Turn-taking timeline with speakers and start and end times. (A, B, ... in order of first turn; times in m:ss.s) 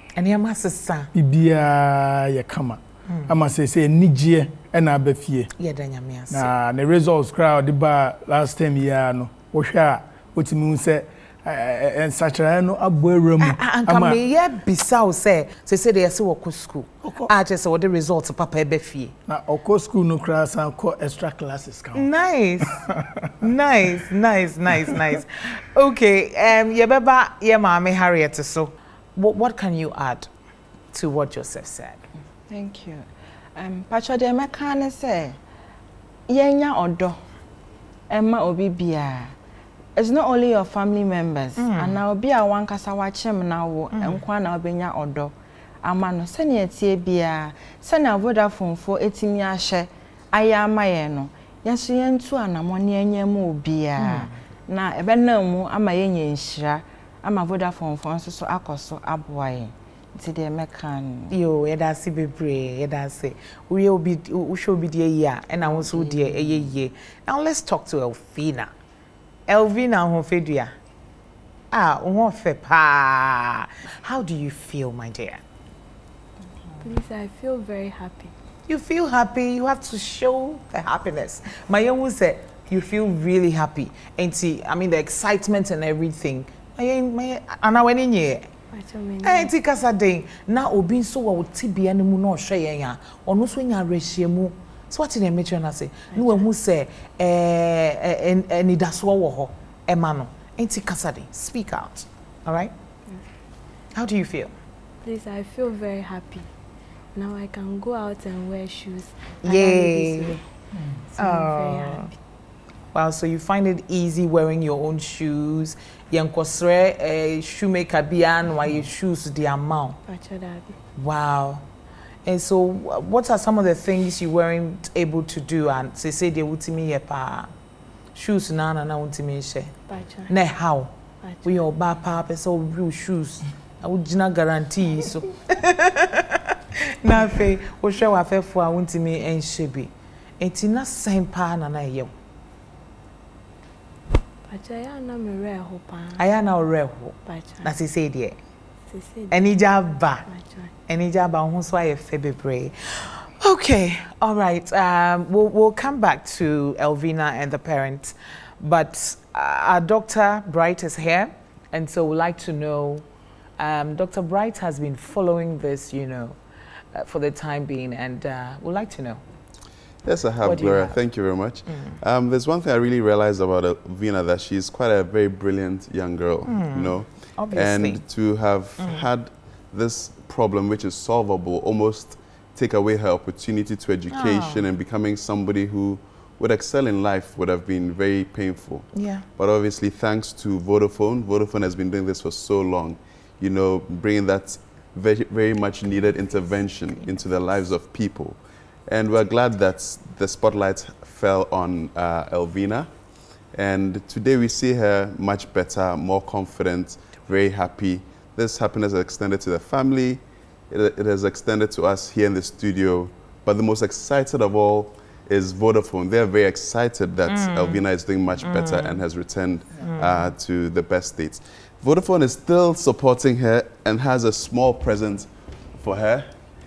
0:00.2-0:01.1 A
0:01.1-0:05.5 B
0:05.6-0:06.5 A
0:06.3-0:14.2 B
0:13.4-0:19.1 A
0:17.0-0:17.3 B
0:19.3-0:22.1 B
0:21.9-0:22.8 A
0:22.6-0:23.3 B
0:23.4-0:30.3 A
0:30.9-0:32.0 A
0:32.5-0:35.4 C
0:36.3-0:37.2 C
0:38.1-0:39.3 C
0:40.0-1:01.3 C
0:41.6-0:42.0 A
1:01.3-1:08.7 A
1:05.6-1:06.7 C
1:09.5-1:10.7 A
1:11.7-1:15.4 A
1:16.8-1:18.3 D
1:18.7-1:28.5 A
1:28.7-1:29.5 D
1:29.2-1:42.7 A
1:36.1-1:36.4 D
1:43.9-1:44.5 A
1:45.0-1:46.5 D
1:47.1-1:50.4 D
1:49.4-1:50.4 A
1:51.1-1:52.1 D
1:51.1-1:52.1 A
1:52.9-2:00.0 A
2:00.0-2:00.7 D
2:01.0-2:01.6 A
2:02.2-2:07.5 A
2:08.1-2:09.7 A
2:09.9-2:10.3 D
2:10.3-2:16.5 A
2:11.2-2:11.7 D
2:17.0-2:22.1 A
2:24.5-2:26.4 D
2:26.1-2:28.4 A
2:27.2-2:27.8 D
2:28.9-2:30.7 D
2:29.3-2:30.2 A
2:30.9-2:43.0 A
2:43.6-2:46.4 A
2:46.9-2:49.2 A
2:50.0-3:22.9 E
2:50.4-2:51.0 A
2:56.4-2:58.0 A
3:04.1-3:04.6 A
3:08.9-3:09.2 A
3:23.5-3:46.3 E
3:37.3-3:37.8 A
3:38.4-3:39.0 A
3:39.8-3:40.3 A